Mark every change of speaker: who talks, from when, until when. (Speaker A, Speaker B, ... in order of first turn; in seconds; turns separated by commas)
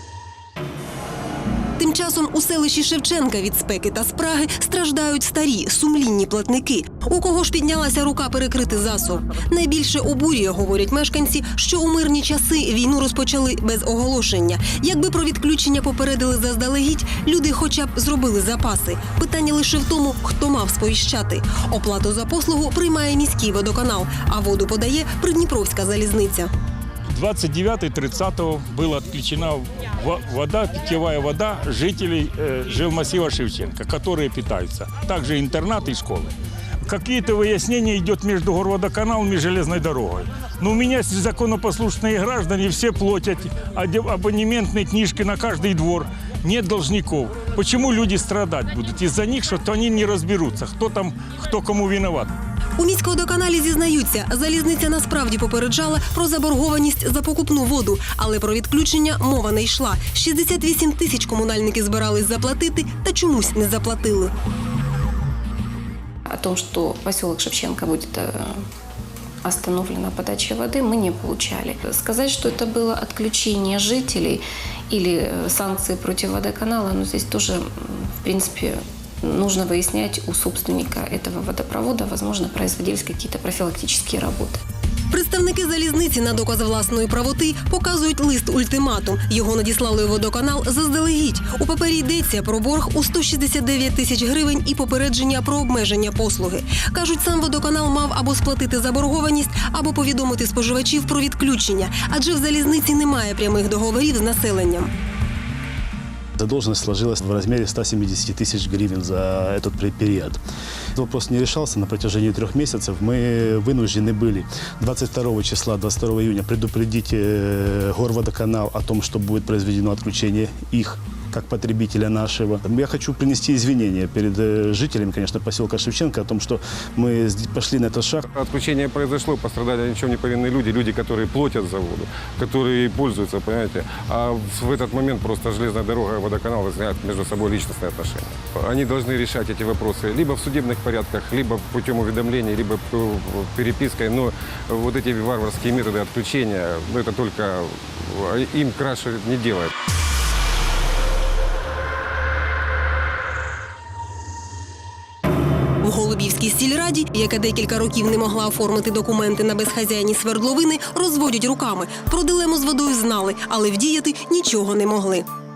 Speaker A: 1.8-26.5, Speaker B: 27.1-52.3, Speaker A: 52.8-64.3, Speaker C: 66.3-68.6, Speaker C: 69.4-84.6, Speaker A: 85.1-104.9, Speaker D: 106.4-110.4, Speaker D: 111.0-128.3, Speaker E: 128.3-149.7, Speaker A: 155.8-165.3